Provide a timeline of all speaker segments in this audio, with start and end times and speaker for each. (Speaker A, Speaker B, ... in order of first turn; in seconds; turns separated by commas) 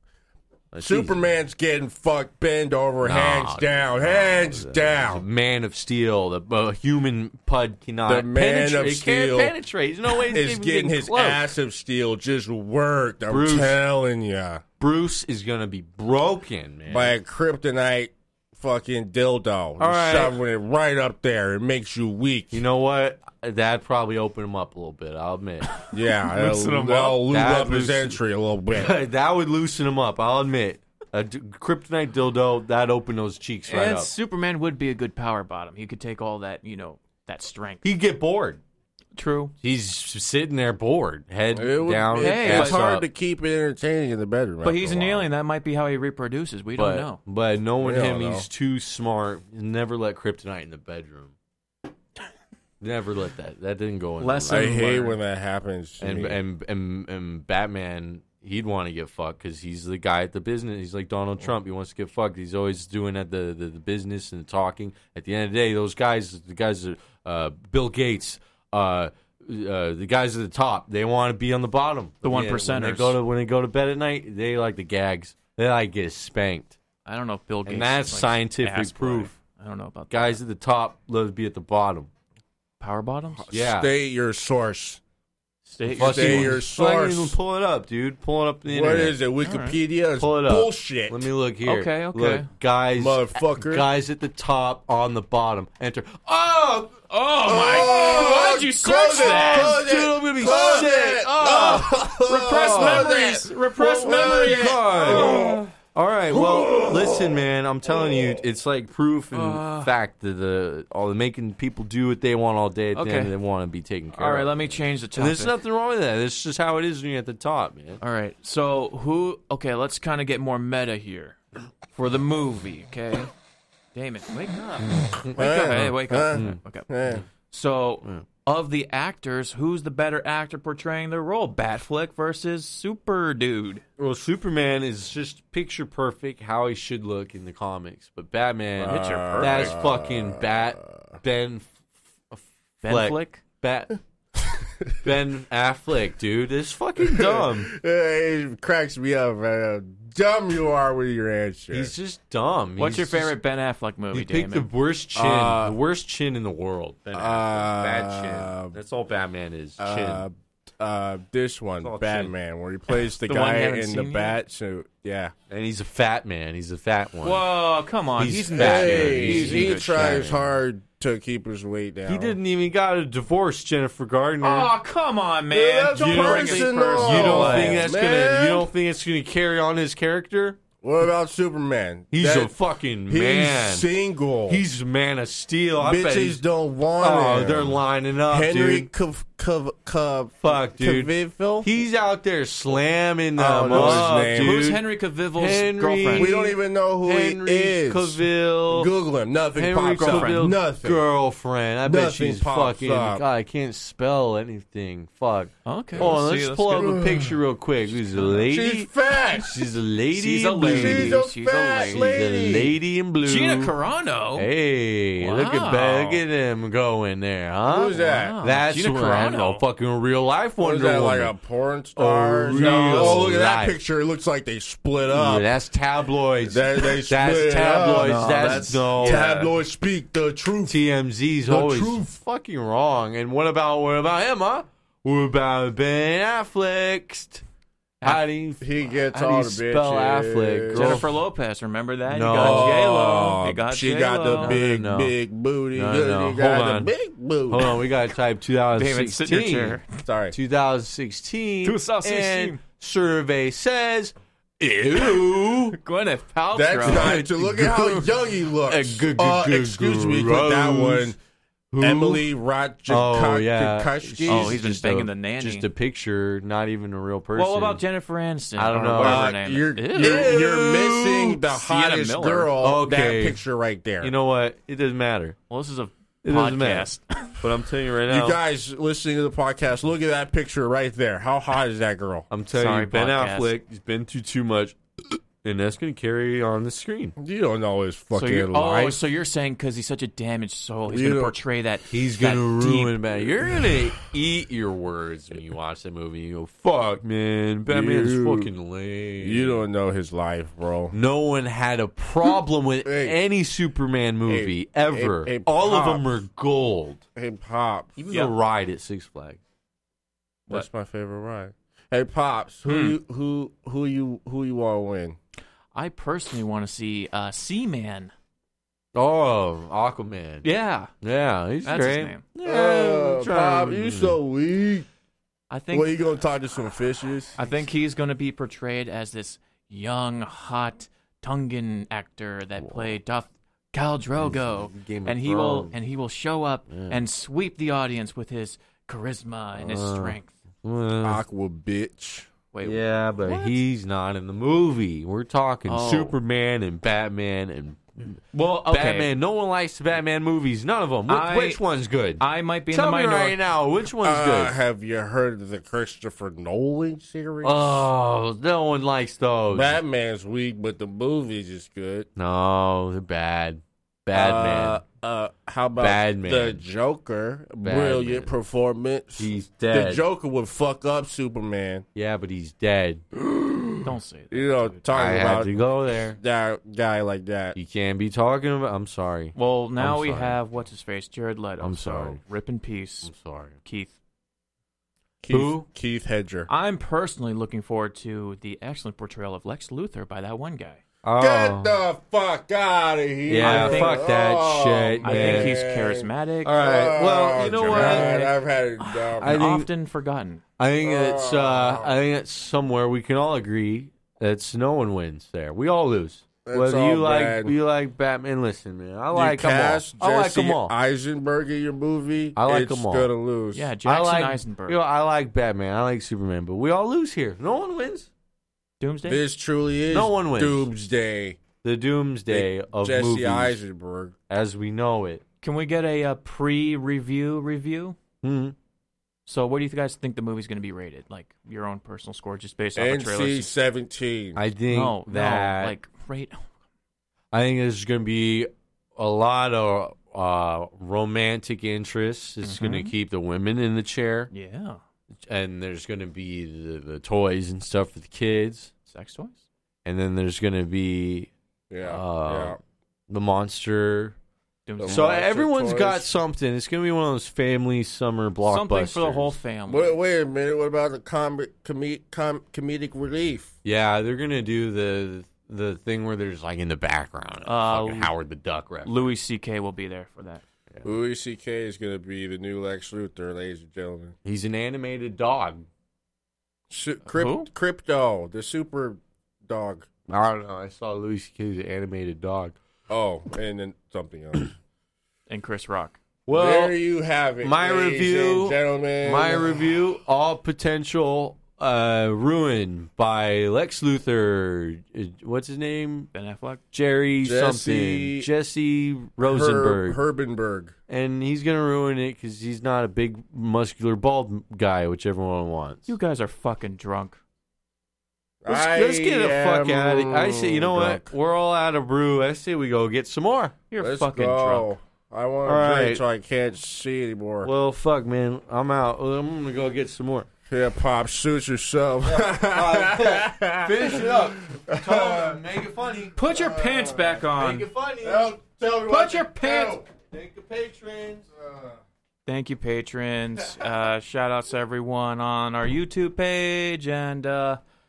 Speaker A: 0.7-1.3, Speaker B: 0.8-5.2, Speaker A: 3.0-11.5, Speaker B: 8.1-9.5, Speaker B: 10.2-14.6, Speaker A: 13.3-13.8, Speaker A: 14.8-17.2, Speaker B: 16.9-22.6, Speaker A: 19.8-20.4, Speaker A: 22.5-25.7, Speaker B: 25.9-28.9, Speaker A: 26.3-28.2, Speaker A: 28.7-34.1, Speaker C: 33.7-37.9, Speaker A: 37.8-38.6, Speaker C: 39.1-39.5, Speaker A: 39.6-43.0, Speaker B: 41.5-45.3, Speaker C: 42.1-42.8, Speaker C: 44.6-47.2, Speaker A: 46.8-51.3, Speaker B: 47.8-48.5, Speaker A: 52.8-54.7, Speaker C: 54.2-55.2, Speaker B: 54.5-56.4, Speaker A: 56.0-76.8, Speaker C: 72.2-73.2, Speaker C: 77.0-80.4, Speaker A: 77.6-79.3, Speaker A: 80.1-82.1, Speaker C: 82.8-83.5, Speaker B: 83.4-85.0, Speaker A: 83.5-83.9, Speaker C: 85.7-86.6, Speaker A: 85.9-89.2, Speaker B: 86.0-87.4, Speaker B: 88.7-91.2, Speaker C: 89.4-89.8, Speaker A: 90.2-97.0, Speaker C: 91.6-92.5, Speaker B: 93.0-93.9, Speaker C: 97.1-105.6, Speaker B: 97.4-105.6, Speaker A: 97.6-118.0, Speaker B: 106.3-108.4, Speaker C: 109.3-109.9, Speaker C: 112.9-113.3, Speaker C: 114.1-115.6, Speaker C: 118.0-121.4, Speaker C: 121.9-123.3, Speaker C: 123.9-126.9, Speaker A: 125.2-127.2, Speaker B: 125.3-127.2, Speaker C: 127.4-133.8, Speaker A: 134.0-141.8, Speaker B: 138.8-141.2, Speaker C: 138.8-139.8, Speaker A: 142.3-143.9, Speaker C: 142.8-143.4, Speaker A: 145.0-147.7, Speaker B: 147.0-151.9, Speaker A: 151.7-153.3, Speaker C: 152.8-154.7, Speaker A: 154.1-160.2, Speaker B: 155.2-155.8, Speaker B: 157.1-158.8, Speaker B: 159.8-165.3, Speaker A: 161.8-162.3, Speaker C: 163.2-164.4, Speaker A: 165.5-167.4, Speaker C: 167.2-170.2, Speaker A: 168.1-170.5, Speaker B: 168.5-172.4, Speaker A: 172.1-174.7, Speaker C: 174.4-177.9, Speaker A: 175.5-180.6, Speaker B: 175.9-178.7, Speaker B: 180.8-182.5, Speaker A: 182.1-183.9, Speaker B: 183.1-184.6, Speaker A: 184.5-186.4, Speaker B: 185.8-191.7, Speaker A: 187.0-188.9, Speaker A: 190.4-191.1, Speaker A: 191.6-194.8, Speaker B: 193.3-194.6, Speaker C: 193.7-196.4, Speaker A: 195.3-198.9, Speaker B: 196.1-201.0, Speaker A: 199.5-211.2, Speaker C: 200.0-200.5, Speaker B: 201.8-203.2, Speaker C: 205.6-206.9, Speaker B: 206.7-207.4, Speaker B: 208.4-209.7, Speaker C: 210.1-212.2, Speaker B: 210.6-212.7, Speaker A: 211.8-213.7, Speaker C: 213.2-214.5, Speaker A: 214.3-221.3, Speaker C: 215.2-216.2, Speaker B: 217.7-218.3, Speaker C: 217.9-219.6, Speaker B: 220.6-225.5, Speaker A: 221.9-223.8, Speaker C: 222.5-223.3, Speaker A: 225.1-229.5, Speaker B: 226.4-230.8, Speaker C: 227.9-229.5, Speaker A: 230.7-237.4, Speaker B: 231.4-232.1, Speaker A: 238.0-241.1, Speaker B: 238.6-241.0, Speaker C: 240.7-244.6, Speaker A: 242.1-242.8, Speaker B: 242.4-247.8, Speaker A: 244.3-245.1, Speaker A: 245.7-246.9, Speaker A: 247.5-255.8, Speaker C: 248.7-249.9, Speaker B: 250.0-250.3, Speaker C: 251.6-252.6, Speaker C: 254.9-257.2, Speaker B: 256.5-261.1, Speaker A: 256.8-258.1, Speaker A: 258.7-261.1, Speaker A: 261.7-262.3, Speaker B: 261.8-264.6, Speaker A: 262.9-267.8, Speaker C: 264.2-265.7, Speaker C: 267.3-270.4, Speaker A: 268.6-269.3, Speaker B: 269.0-274.1, Speaker A: 269.9-271.4, Speaker C: 271.4-272.5, Speaker A: 272.6-273.4, Speaker A: 274.0-275.4, Speaker C: 275.5-277.4, Speaker A: 276.2-278.4, Speaker B: 278.1-282.3, Speaker A: 282.3-287.1, Speaker C: 282.5-283.5, Speaker B: 287.2-289.0, Speaker C: 288.1-293.0, Speaker B: 290.9-291.3, Speaker A: 291.9-299.6, Speaker B: 297.7-298.5, Speaker B: 299.2-300.9, Speaker A: 300.9-307.0, Speaker B: 302.8-303.1, Speaker B: 304.3-306.1, Speaker B: 307.1-308.0, Speaker A: 308.0-309.4, Speaker B: 310.5-315.2, Speaker C: 312.6-313.0, Speaker C: 315.7-318.1, Speaker A: 318.9-320.5, Speaker C: 320.4-320.9, Speaker A: 321.0-324.2, Speaker C: 321.6-322.2, Speaker B: 322.4-324.9, Speaker C: 325.5-326.0, Speaker B: 325.7-327.4, Speaker C: 327.4-340.3, Speaker A: 332.6-332.9, Speaker A: 334.2-335.7, Speaker A: 336.7-337.0, Speaker A: 339.5-341.2, Speaker B: 341.0-342.3, Speaker C: 342.5-343.6, Speaker A: 342.6-354.6, Speaker C: 345.6-346.2, Speaker C: 348.3-349.1, Speaker C: 351.1-351.6, Speaker C: 352.2-353.4, Speaker B: 354.0-357.9, Speaker A: 357.4-359.8, Speaker B: 359.5-362.1, Speaker A: 362.1-364.8, Speaker B: 364.1-371.8, Speaker A: 365.8-366.6, Speaker A: 367.6-368.3, Speaker A: 369.2-370.0, Speaker A: 371.9-373.0, Speaker B: 373.1-375.5, Speaker C: 373.8-374.8, Speaker A: 374.9-376.2, Speaker B: 376.1-377.6, Speaker A: 377.5-380.4, Speaker C: 379.3-383.9, Speaker A: 381.6-382.2, Speaker A: 383.0-383.6, Speaker B: 385.2-386.5, Speaker A: 385.3-385.6, Speaker C: 386.5-390.8, Speaker A: 391.0-391.8, Speaker B: 391.2-399.4, Speaker A: 393.3-395.6, Speaker C: 393.4-394.1, Speaker C: 395.0-400.4, Speaker A: 396.4-398.2, Speaker A: 399.2-399.7, Speaker A: 400.6-410.7, Speaker B: 400.8-401.9, Speaker B: 406.4-407.5, Speaker B: 409.1-413.7, Speaker A: 412.4-413.1, Speaker C: 413.5-414.8, Speaker A: 413.8-418.1, Speaker C: 418.8-419.2, Speaker B: 419.0-421.4, Speaker A: 419.9-420.7, Speaker A: 421.6-423.6, Speaker B: 422.3-424.1, Speaker A: 424.3-425.2, Speaker C: 425.4-427.9, Speaker A: 428.2-428.5, Speaker C: 429.2-433.5, Speaker B: 432.8-434.4, Speaker A: 434.4-435.8, Speaker C: 434.7-436.4, Speaker A: 437.3-444.3, Speaker C: 442.4-442.9, Speaker C: 444.3-444.8, Speaker A: 445.3-448.7, Speaker C: 448.9-449.4, Speaker A: 449.8-451.3, Speaker B: 451.7-452.6, Speaker A: 451.8-452.6, Speaker A: 453.1-454.1, Speaker C: 454.7-455.2, Speaker B: 454.8-456.1, Speaker A: 454.8-459.4, Speaker C: 458.4-460.0, Speaker B: 459.7-463.5, Speaker A: 463.6-469.1, Speaker C: 467.4-468.1, Speaker C: 468.8-470.4, Speaker B: 470.8-474.1, Speaker A: 474.2-475.6, Speaker B: 476.7-479.9, Speaker C: 477.1-477.5, Speaker A: 480.1-482.6, Speaker B: 482.9-484.5, Speaker C: 485.3-486.0, Speaker A: 486.2-486.8, Speaker B: 486.3-489.6, Speaker A: 487.4-496.1, Speaker C: 496.1-496.6, Speaker A: 496.7-500.0, Speaker B: 497.2-498.3, Speaker B: 499.2-500.7, Speaker A: 500.9-505.9, Speaker C: 505.9-507.2, Speaker B: 508.4-511.1, Speaker A: 508.5-513.5, Speaker C: 513.7-514.7, Speaker B: 513.8-517.5, Speaker A: 515.4-516.0, Speaker A: 517.4-520.3, Speaker B: 520.5-525.4, Speaker A: 522.0-526.2, Speaker C: 526.1-527.7, Speaker B: 526.2-527.2, Speaker A: 527.3-528.3, Speaker B: 528.0-529.8, Speaker C: 528.8-529.8, Speaker A: 529.9-531.2, Speaker B: 531.4-531.8, Speaker C: 532.2-537.6